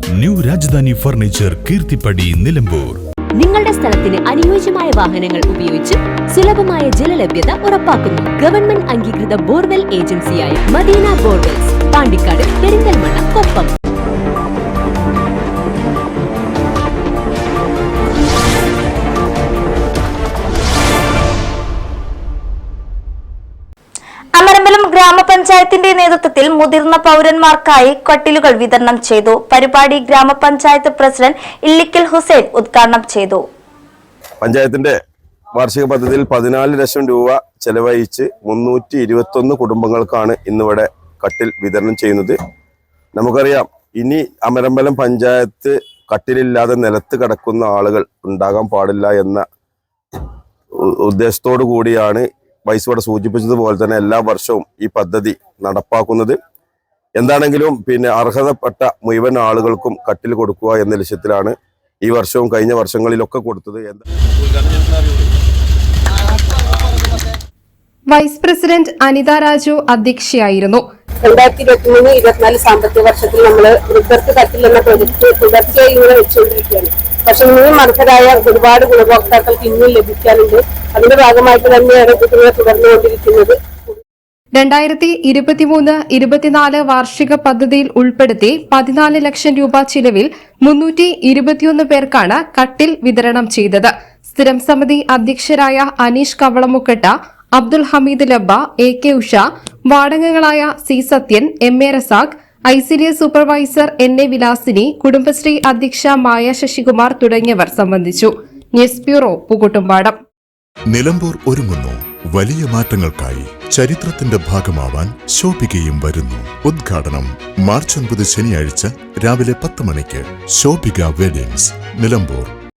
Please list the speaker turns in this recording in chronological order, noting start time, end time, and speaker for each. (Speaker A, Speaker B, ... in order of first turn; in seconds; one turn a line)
Speaker A: 0.2-3.0
Speaker B: 3.4-13.7
Speaker C: 24.4-33.4
Speaker D: 34.4-35.0
Speaker D: 35.5-42.4
Speaker D: 43.1-49.4
Speaker D: 51.0-56.4
Speaker D: 57.2-64.0
Speaker D: 64.6-64.9
Speaker E: 68.1-70.8
Speaker F: 71.2-83.6
Speaker E: 84.5-110.2
Speaker G: 110.9-122.5